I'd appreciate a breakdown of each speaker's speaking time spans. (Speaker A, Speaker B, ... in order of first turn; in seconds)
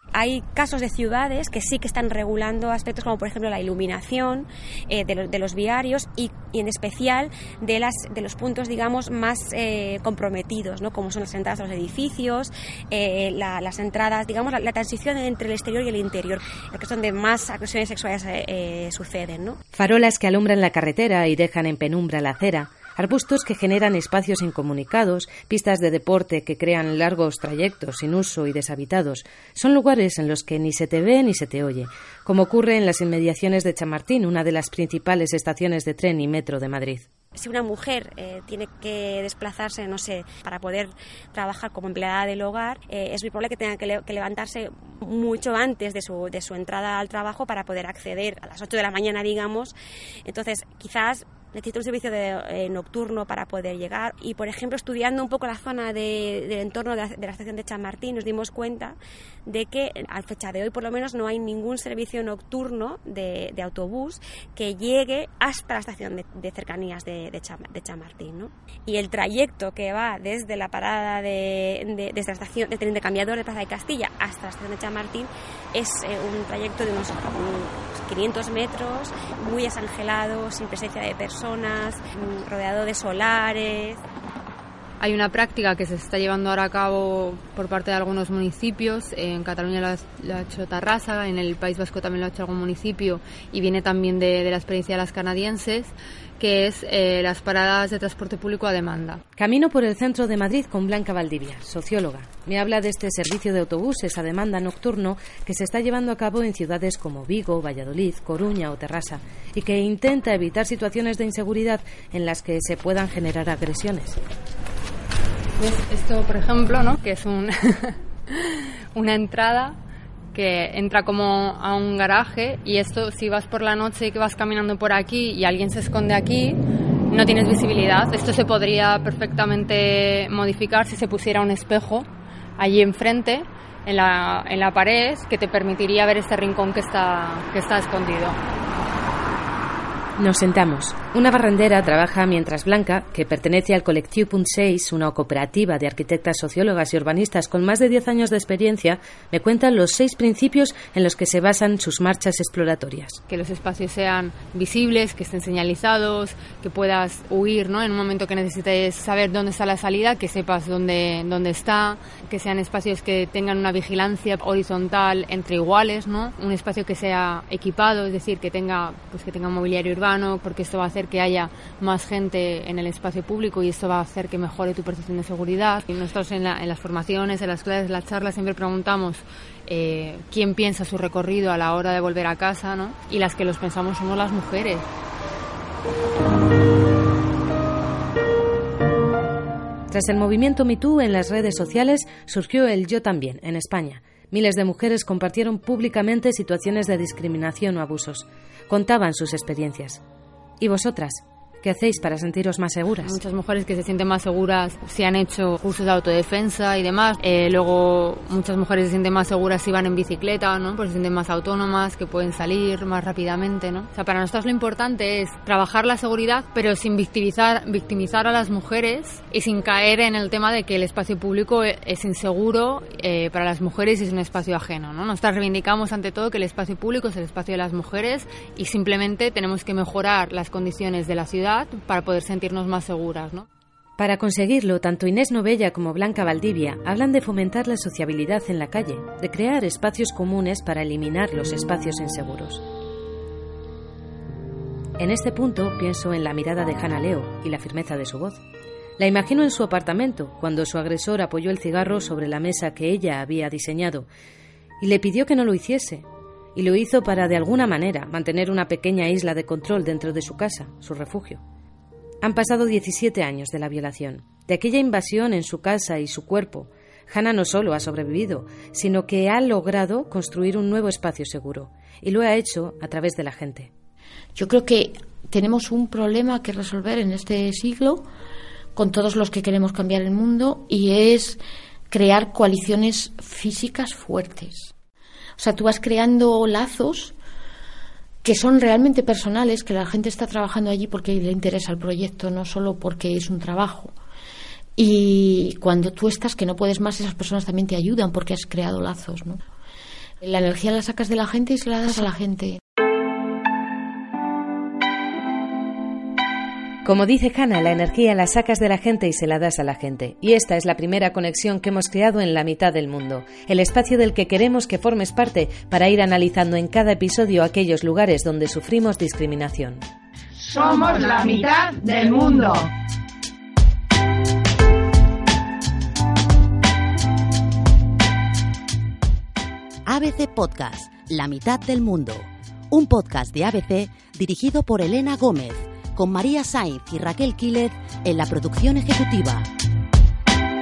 Speaker A: 0.1-19.6, 37.4-49.7, 50.3-84.0
Speaker B: 19.7-37.1, 99.4-114.2, 140.2-153.2, 189.9-200.0, 200.6-203.2, 234.0-242.6, 245.0-248.4, 249.0-254.1, 254.8-261.4, 262.2-273.7, 306.9-319.9
Speaker C: 85.0-99.2, 115.6-119.8, 120.3-132.1, 132.6-138.4, 153.3-184.9, 203.0-233.5
Speaker D: 274.4-278.1, 278.8-284.7, 285.4-287.1, 288.2-293.9, 294.8-299.4, 300.2-302.6
Speaker E: 320.4-322.7
Speaker F: 329.9-339.5